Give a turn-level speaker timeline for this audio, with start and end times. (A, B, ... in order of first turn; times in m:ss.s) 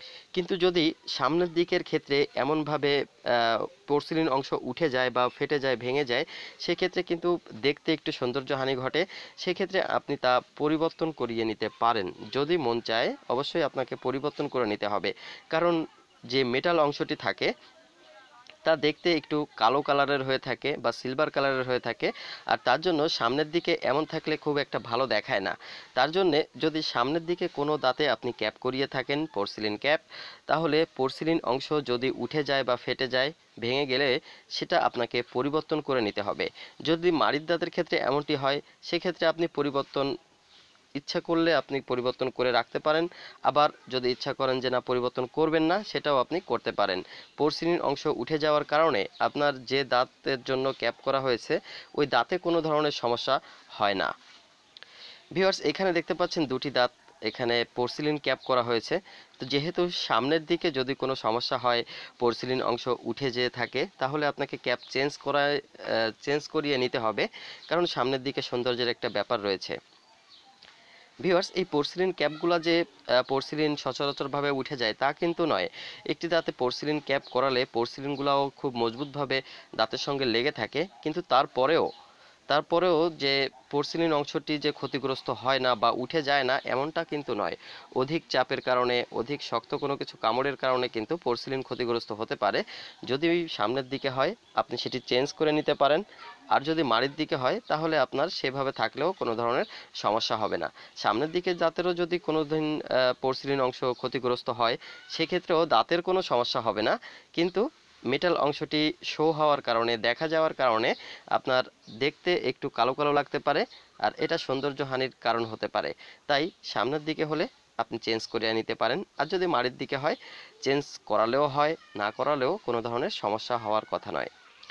0:00.4-0:15.8 A
0:16.3-0:17.5 A
0:18.6-0:40.1 A
0:41.0-0:54.1 A
0:55.4-1:09.8 A
1:11.2-1:21.9 A
1:22.5-1:36.0 A
1:36.6-2:04.3 A